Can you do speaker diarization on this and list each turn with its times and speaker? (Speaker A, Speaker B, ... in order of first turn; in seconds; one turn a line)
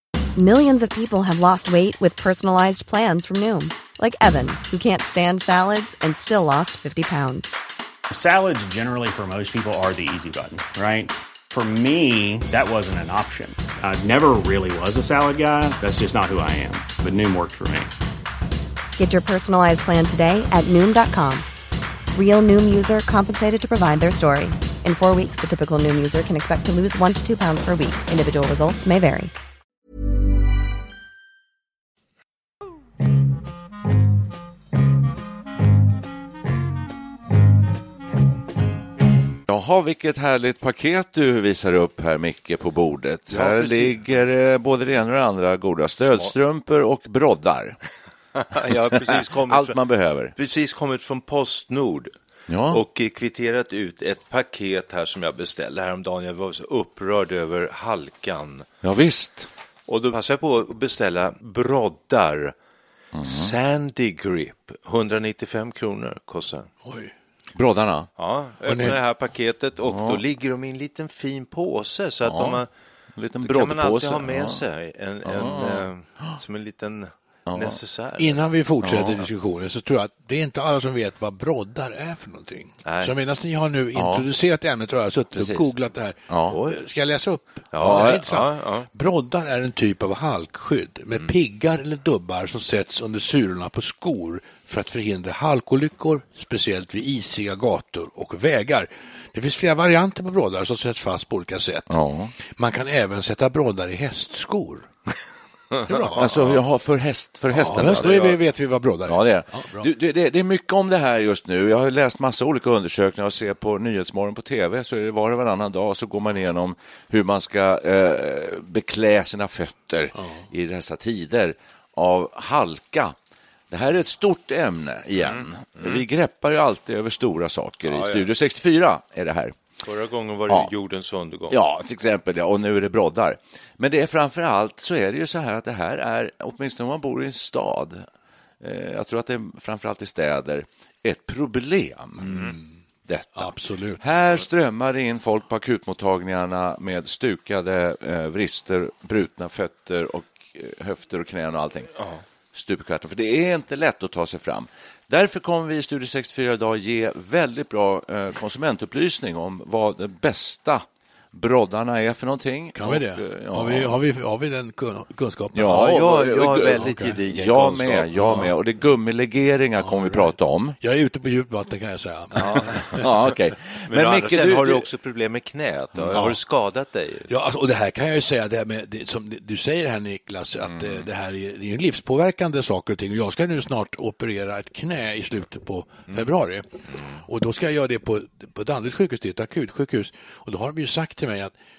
Speaker A: 0.4-7.5
Speaker B: 8.1-17.9
Speaker A: 19.0-21.5
Speaker A: 22.1-29.3
Speaker C: 39.5-47.8
Speaker D: 43.3-44.0
Speaker D: 46.0-46.3
Speaker D: 48.4-49.8
Speaker C: 48.9-50.4
Speaker D: 50.4-52.1
Speaker C: 52.5-52.8
Speaker D: 52.7-58.7
Speaker C: 58.8-59.5
Speaker D: 59.9-62.6
Speaker C: 63.1-63.5
Speaker D: 63.2-66.7
Speaker E: 66.8-67.1
Speaker C: 67.6-68.1
Speaker D: 68.2-72.7
Speaker E: 68.7-69.0
Speaker C: 69.9-70.2
Speaker C: 72.3-72.6
Speaker C: 73.2-74.6
Speaker D: 73.4-78.4
Speaker C: 75.2-76.4
Speaker C: 77.5-77.8
Speaker E: 78.2-104.9
Speaker C: 78.8-79.2
Speaker D: 82.8-83.1
Speaker C: 84.0-84.2
Speaker C: 86.3-86.6
Speaker D: 86.5-86.8
Speaker D: 87.7-88.9
Speaker C: 87.8-88.2
Speaker C: 101.9-102.4
Speaker E: 105.8-106.6
Speaker C: 106.2-108.4
Speaker E: 107.5-109.9
Speaker C: 109.1-123.2
Speaker E: 120.2-120.4
Speaker C: 123.7-129.6
Speaker D: 127.9-128.3
Speaker D: 129.8-131.6
Speaker C: 131.5-138.1
Speaker C: 138.6-142.5
Speaker E: 142.2-142.7
Speaker C: 143.1-152.0
Speaker E: 143.4-144.0
Speaker C: 152.5-164.0
Speaker E: 162.8-165.8
Speaker C: 165.5-170.8
Speaker D: 165.7-168.1
Speaker E: 166.8-167.2
Speaker E: 168.2-168.5
Speaker E: 169.8-173.0
Speaker D: 172.3-172.8
Speaker C: 172.5-174.9
Speaker D: 173.9-177.3
Speaker C: 175.9-176.3
Speaker E: 177.3-191.6
Speaker C: 180.7-181.1